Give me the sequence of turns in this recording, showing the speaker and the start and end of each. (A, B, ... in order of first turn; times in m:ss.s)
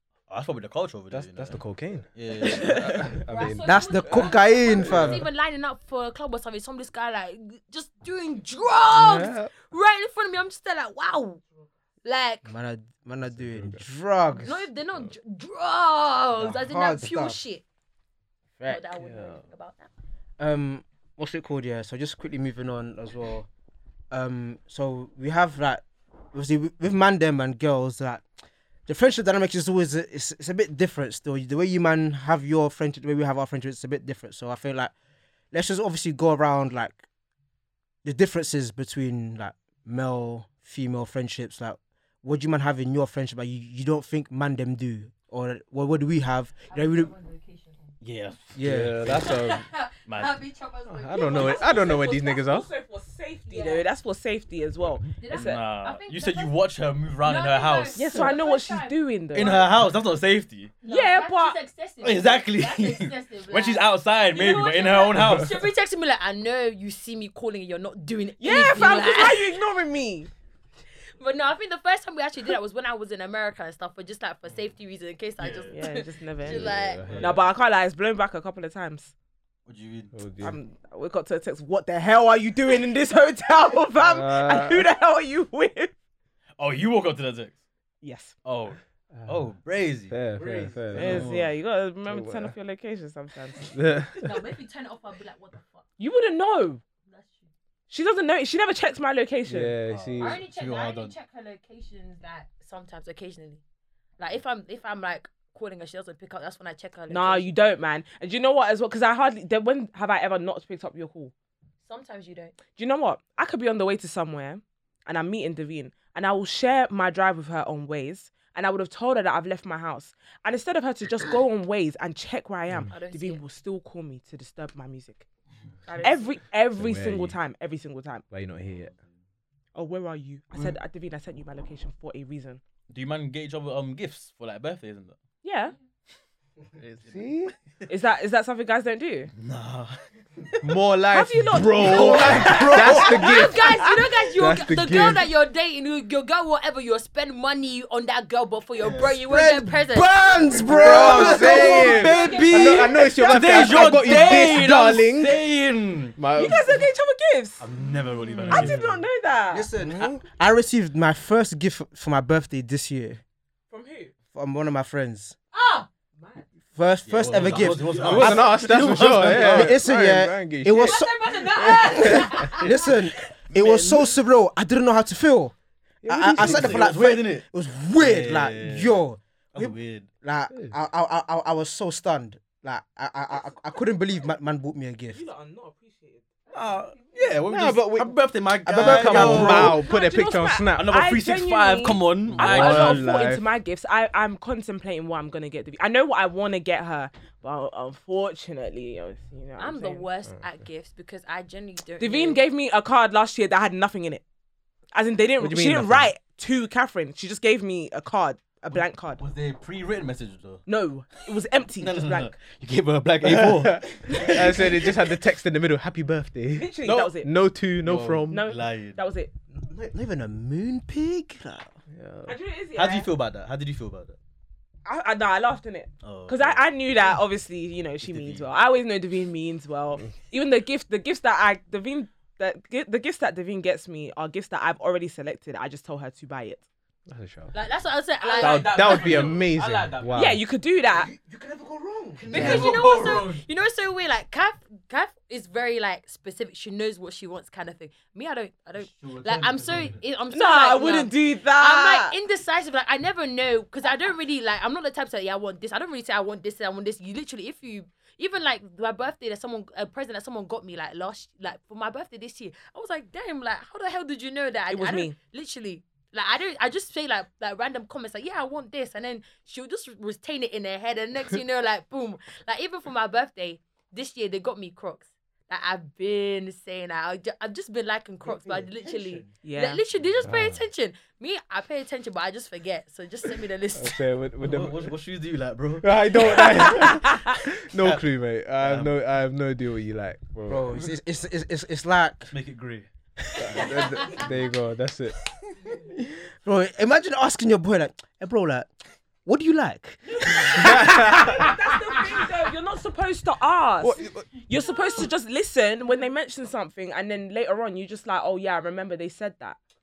0:00.3-0:01.6 A
0:01.1-0:05.3 B
0:02.1-0:03.1 A
0:02.4-0:03.1 C
0:03.3-0:11.4 D
0:03.6-0:05.3 E
0:08.9-0:09.5 B
0:12.0-0:12.5 D
0:12.4-0:14.7 E
0:13.3-0:13.8 B
0:14.4-0:17.6 D
0:16.4-0:17.4 E
0:18.6-0:19.9 D
0:18.9-0:19.4 B
0:20.4-0:23.5 E
0:24.1-0:28.2 E
0:28.9-0:34.9 E
0:35.5-0:37.0 E
0:38.0-0:47.1 E
0:46.6-0:47.9 D
0:48.0-0:49.3 A
0:48.6-0:49.0 E
0:48.6-0:49.6 B
0:49.2-0:52.0 D
0:50.1-0:50.4 A
0:50.9-0:52.7 B
0:51.3-0:55.6 C
0:53.5-0:53.9 D
0:55.2-0:56.6 D
0:55.3-0:58.2 A
0:57.2-0:59.6 D
0:57.9-0:59.7 C
0:59.3-1:00.8 A
1:00.8-1:09.6 D
1:00.8-1:01.6 C
1:02.0-1:05.7 A
1:08.4-1:10.3 C
1:11.2-1:17.0 D
1:15.4-1:15.8 A
1:15.7-1:19.1 C
1:16.4-1:17.4 B
1:16.8-1:17.4 A
1:19.7-1:20.1 A
1:20.1-1:20.6 B
1:20.4-1:25.9 C
1:24.0-1:24.8 B
1:26.6-1:27.6 A
1:28.0-1:28.4 C
1:28.4-1:31.5 A
1:29.2-1:29.5 B
1:30.1-1:31.3 B
1:30.4-1:30.8 E
1:30.9-1:33.7 C
1:32.1-1:32.5 B
1:33.7-1:34.2 B
1:34.2-1:35.9 D
1:36.0-1:36.8 C
1:37.0-1:37.5 D
1:37.9-1:39.8 C
1:39.4-1:40.4 B
1:39.9-1:41.1 A
1:40.2-1:43.6 D
1:44.2-1:47.5 D
1:47.1-1:51.3 C
1:51.8-1:52.6 D
1:52.7-2:05.2 C
2:02.9-2:03.4 D
2:05.9-2:08.2 C
2:06.7-2:07.4 B
2:08.3-2:08.9 B
2:09.7-2:12.6 C
2:12.9-2:15.2 A
2:15.4-2:15.7 C
2:16.8-2:17.8 A
2:17.1-2:17.5 B
2:17.9-2:19.3 C
2:19.4-2:20.0 A
2:20.6-2:23.8 B
2:21.1-2:23.2 C
2:21.8-2:23.3 E
2:21.9-2:22.8 A
2:23.0-2:32.9 D
2:24.3-2:25.3 B
2:28.8-2:32.2 E
2:30.7-2:35.4 B
2:30.9-2:36.2 A
2:32.1-2:32.7 C
2:36.2-2:36.8 B
2:36.3-2:37.6 C
2:37.6-2:38.8 A
2:38.4-2:38.8 B
2:38.5-2:39.7 C
2:39.5-2:43.2 E
2:39.8-2:40.2 B
2:43.7-2:44.1 C
2:44.3-2:45.4 E
2:45.5-2:45.9 D
2:46.1-2:46.4 C
2:46.7-2:48.6 E
2:47.0-2:49.8 A
2:48.0-2:51.0 B
2:49.2-2:55.5 E
2:50.7-2:52.8 D
2:51.7-2:52.5 B
2:53.5-2:54.1 A
2:56.0-2:57.0 B
2:56.1-3:05.2 E
2:56.3-2:59.0 A
2:59.5-3:00.1 A
3:05.1-3:06.8 C
3:06.5-3:09.8 A
3:07.4-3:10.9 B
3:08.6-3:09.8 E
3:09.6-3:20.1 C
3:10.7-3:13.1 A
3:12.4-3:13.4 B
3:19.6-3:22.4 D
3:22.0-3:24.2 C
3:24.9-3:29.2 C
3:25.4-3:26.1 B
3:28.7-3:30.7 A
3:30.6-3:32.3 C
3:31.8-3:34.9 A
3:33.2-3:38.4 B
3:36.5-3:37.3 C
3:37.8-3:39.0 A
3:38.3-3:39.3 C
3:39.5-3:41.8 E
3:41.9-3:42.4 B
3:42.2-3:43.1 C
3:42.7-3:44.2 A
3:44.8-3:56.7 C
3:46.0-3:46.6 A
3:48.0-3:48.5 A
3:57.1-3:57.5 B
3:57.5-3:59.1 D
3:58.2-4:00.4 A
3:58.4-4:00.4 B
3:58.4-3:59.2 C
4:00.1-4:01.1 C
4:00.9-4:02.7 E
4:02.2-4:03.4 A
4:02.3-4:44.0 D
4:02.3-4:02.6 B
4:08.7-4:10.0 A
4:10.3-4:12.1 C
4:24.7-4:25.2 C
4:38.2-4:39.3 E
4:39.4-4:39.8 C
4:40.2-4:40.7 B
4:43.7-4:44.9 B
4:44.4-4:46.9 A
4:45.8-4:50.8 B
4:46.6-4:47.3 C
4:47.8-4:48.0 A
4:48.6-4:48.9 A
4:50.5-4:52.3 E
4:52.3-4:52.9 A
4:53.4-4:55.2 B
4:56.0-4:58.7 E
4:59.2-5:02.2 E
5:00.0-5:09.6 C
5:03.8-5:04.3 B